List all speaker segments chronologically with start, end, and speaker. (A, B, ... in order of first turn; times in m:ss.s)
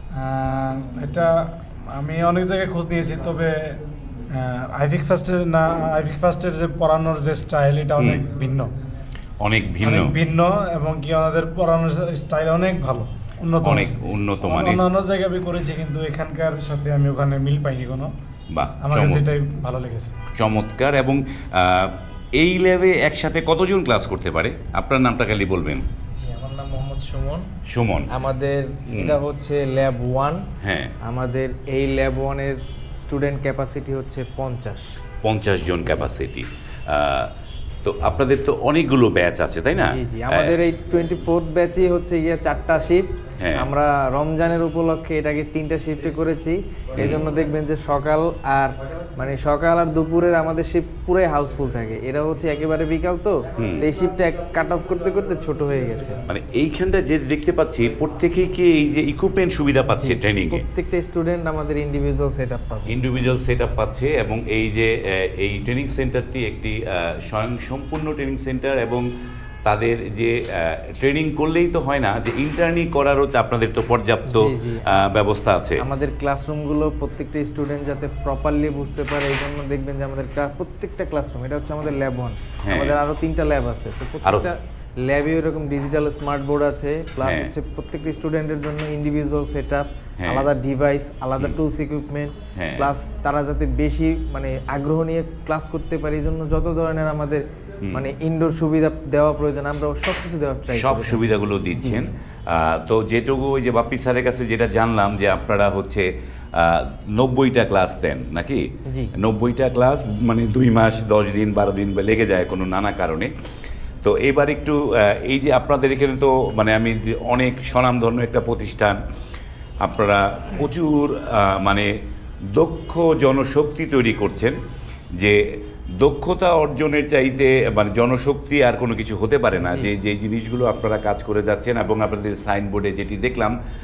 0:00.2-0:08.7 A
0:09.4-0:10.1 B
0:09.8-0:13.9 A
0:13.6-0:14.8 B
0:14.4-0:18.1 A
0:18.5-0:19.2 B
0:18.8-0:20.2 A
0:20.3-0:25.9 B
0:26.1-0:27.5 C
0:27.7-0:28.1 B
0:28.1-0:30.4 C
0:28.9-0:29.2 B
0:30.6-0:30.9 B
0:31.0-0:35.0 C
0:35.2-0:37.3 B
0:37.8-0:40.6 B
0:39.7-0:56.2 C
0:43.4-0:43.7 B
0:53.6-0:53.9 B
0:56.3-1:00.6 B
1:00.0-1:02.9 C
1:02.9-1:09.1 B
1:09.7-1:15.8 B
1:14.3-1:15.0 C
1:15.8-1:41.2 C
1:22.6-1:23.0 B
1:24.2-1:24.5 B
1:27.2-1:27.5 B
1:30.2-1:30.5 B
1:32.6-1:32.9 B
1:40.7-1:48.6 B
1:41.8-1:42.0 C
1:49.2-1:53.3 B
1:54.0-1:59.0 B
1:59.8-2:01.9 B
2:02.5-2:04.6 B
2:06.0-2:13.6 B
2:09.6-2:09.9 C